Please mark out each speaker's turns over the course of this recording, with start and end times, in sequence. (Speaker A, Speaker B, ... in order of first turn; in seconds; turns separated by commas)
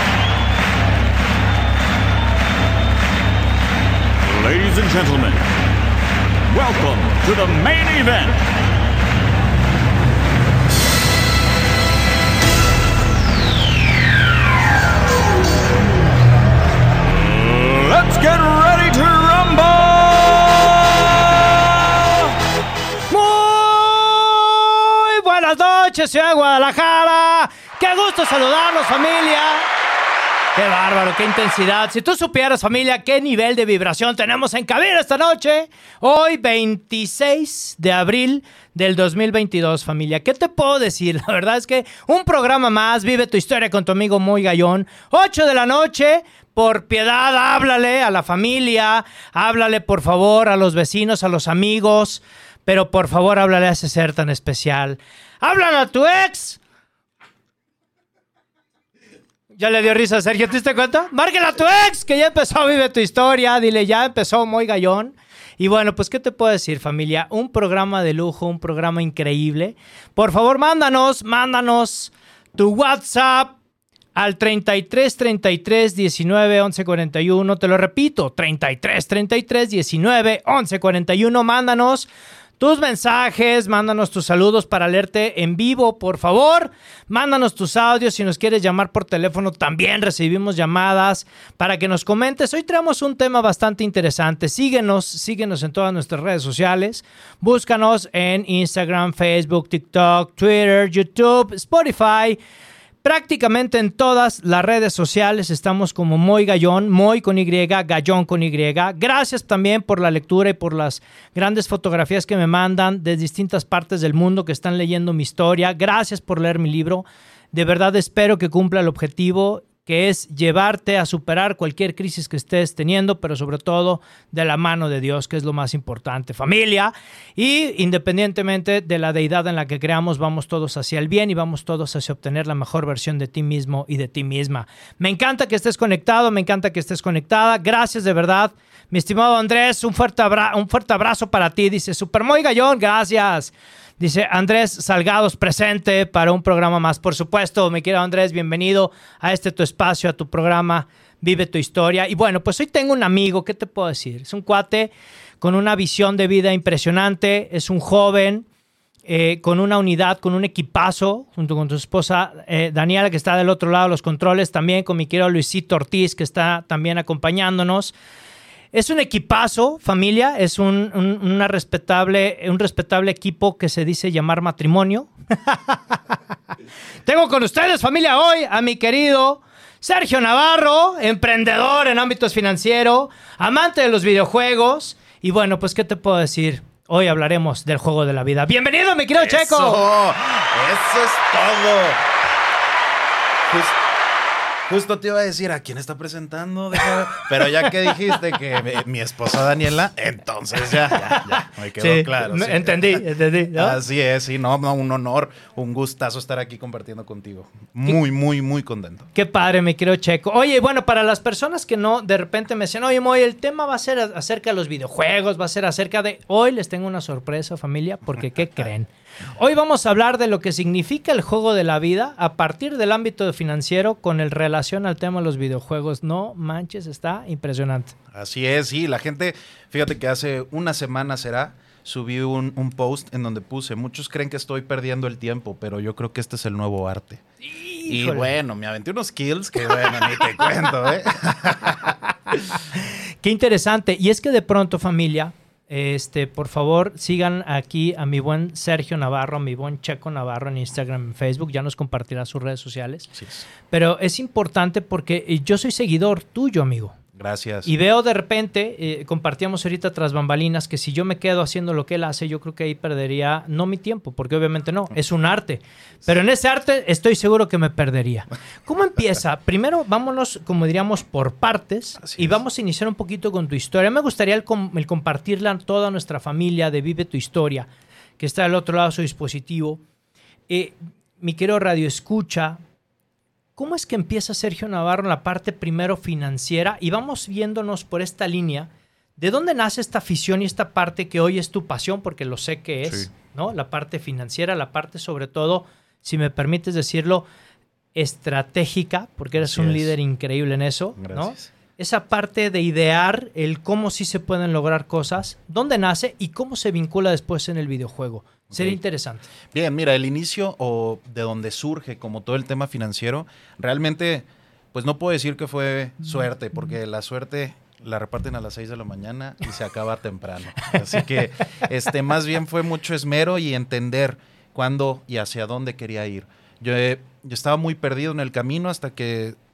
Speaker A: 4.2-5.5, Speaker A: 6.5-8.4, Speaker A: 17.2-22.3, Speaker B: 23.1-29.7, Speaker B: 30.5-56.6, Speaker B: 59.5-73.5, Speaker B: 74.1-102.4, Speaker B: 103.0-158.4, Speaker B: 159.1-167.9, Speaker B: 168.7-176.2, Speaker B: 177.0-189.8, Speaker C: 189.2-192.1, Speaker C: 193.5-193.9, Speaker C: 194.7-209.1, Speaker B: 201.0-203.8, Speaker B: 209.1-227.9, Speaker C: 228.1-237.2, Speaker B: 237.4-238.3, Speaker C: 237.8-242.4, Speaker B: 242.7-257.0, Speaker C: 253.1-253.4, Speaker C: 257.1-257.7, Speaker B: 257.6-279.8, Speaker C: 272.0-272.4, Speaker B: 280.5-282.6, Speaker B: 283.6-297.2, Speaker C: 292.8-293.1, Speaker B: 297.9-309.3, Speaker C: 299.4-299.9, Speaker C: 300.9-301.5, Speaker C: 308.5-308.8, Speaker C: 309.4-329.4